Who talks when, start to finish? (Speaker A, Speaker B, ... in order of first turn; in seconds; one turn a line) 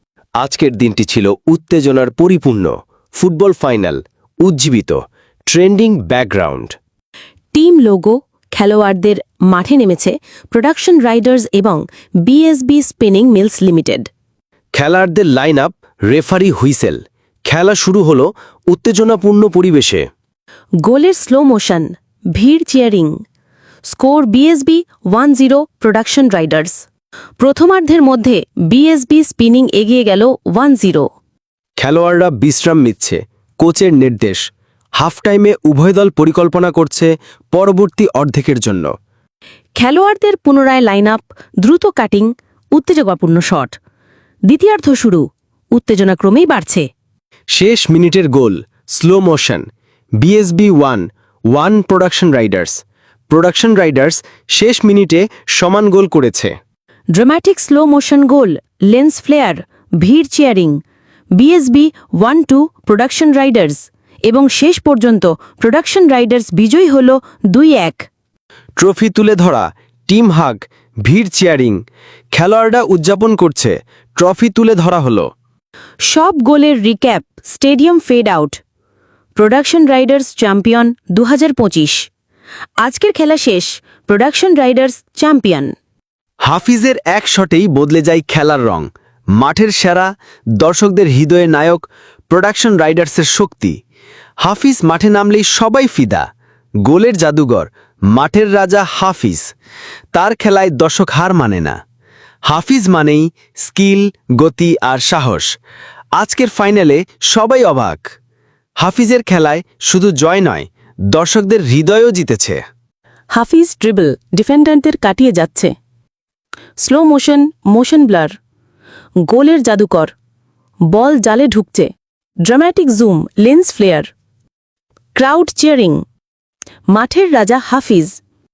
Speaker A: 0.4-6.8
Speaker B: 7.5-14.1
Speaker A: 14.7-20.0
Speaker B: 20.8-23.1
Speaker B: 23.9-26.8
Speaker B: 27.4-31.1
Speaker A: 31.8-34.4
Speaker A: 35.0-38.9
Speaker B: 39.8-43.8
Speaker B: 44.5-46.9
Speaker A: 47.5-49.6
Speaker A: 50.2-56.5
Speaker B: 57.1-60.8
Speaker B: 61.4-68.1
Speaker A: 68.8-71.8
Speaker A: 72.3-75.2
Speaker B: 76.1-78.6
Speaker B: 79.3-82.1
Speaker B: 82.8-85.7
Speaker A: 86.4-93.8
Speaker A: 94.4-96.2
Speaker A: 96.8-99.5
Speaker A: 100.1-101.8
Speaker A: 102.5-105.5
Speaker A: 106.2-108.1
Speaker A: 108.8-112.6
Speaker B: 113.3-115.7
Speaker B: 116.8-118.3
Speaker B: 119.3-120.1
Speaker B: 120.9-121.9
Speaker B: 122.4-124.1
Speaker B: 125.1-126.0
Speaker B: 126.9-128.2